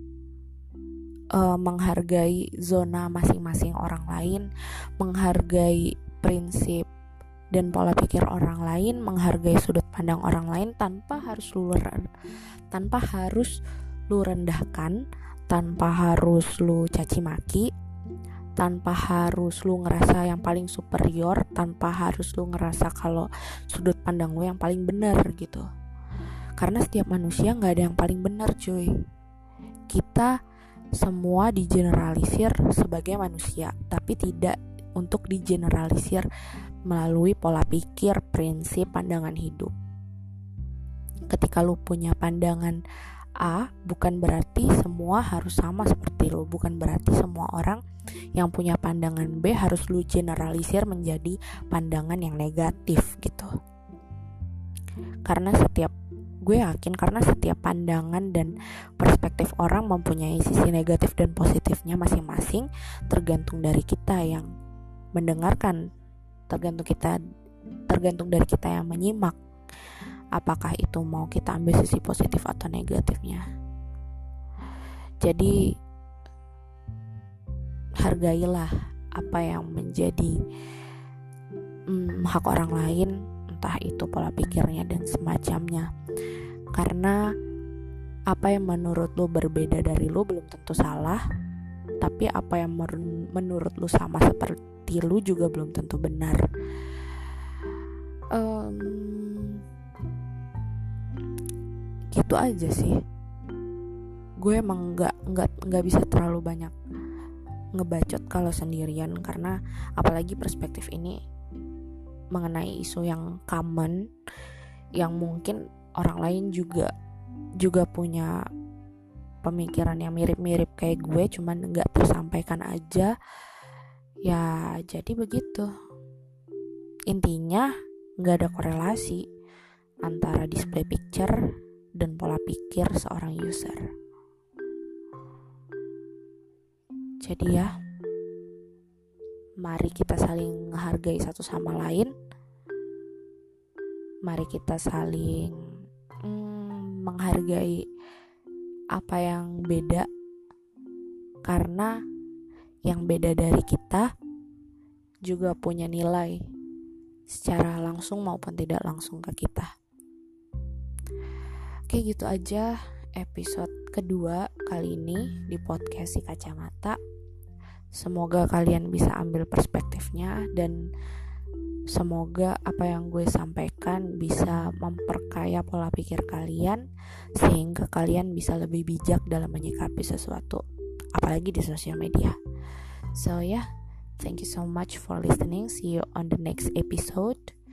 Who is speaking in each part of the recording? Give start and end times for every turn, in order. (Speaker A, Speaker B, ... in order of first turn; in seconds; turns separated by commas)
Speaker A: 1.3-4.5, Speaker A: 5.0-6.8, Speaker A: 7.5-12.1, Speaker A: 12.7-13.6, Speaker A: 14.1-17.7, Speaker A: 18.6-25.6, Speaker A: 26.6-28.9, Speaker A: 29.9-30.3, Speaker A: 31.0-36.3, Speaker A: 36.9-39.7, Speaker A: 41.3-42.8, Speaker A: 43.4-47.8, Speaker A: 48.4-53.5, Speaker A: 55.2-64.5, Speaker A: 65.1-65.8, Speaker A: 66.5-67.2, Speaker A: 67.9-69.4, Speaker A: 70.3-73.4, Speaker A: 75.2-75.5, Speaker A: 78.0-80.4, Speaker A: 81.9-85.9, Speaker A: 86.7-87.2, Speaker A: 88.3-91.2, Speaker A: 92.0-96.5, Speaker A: 98.3-99.6, Speaker A: 102.1-103.0, Speaker A: 104.4-106.7, Speaker A: 107.8-111.2, Speaker A: 112.3-114.0, Speaker A: 115.0-116.9, Speaker A: 117.6-118.4, Speaker A: 119.4-123.1, Speaker A: 124.2-125.7, Speaker A: 127.1-129.2, Speaker A: 130.0-131.4, Speaker A: 132.0-133.9, Speaker A: 137.2-137.7, Speaker A: 139.6-142.1, Speaker A: 144.2-145.7, Speaker A: 146.2-147.8, Speaker A: 148.9-150.1, Speaker A: 151.4-151.9, Speaker A: 152.8-154.1, Speaker A: 155.2-156.4, Speaker A: 157.3-159.7, Speaker A: 161.9-167.0, Speaker A: 167.9-170.8, Speaker A: 171.9-176.8, Speaker A: 177.4-180.6, Speaker A: 181.1-182.4, Speaker A: 183.1-183.7, Speaker A: 184.2-187.5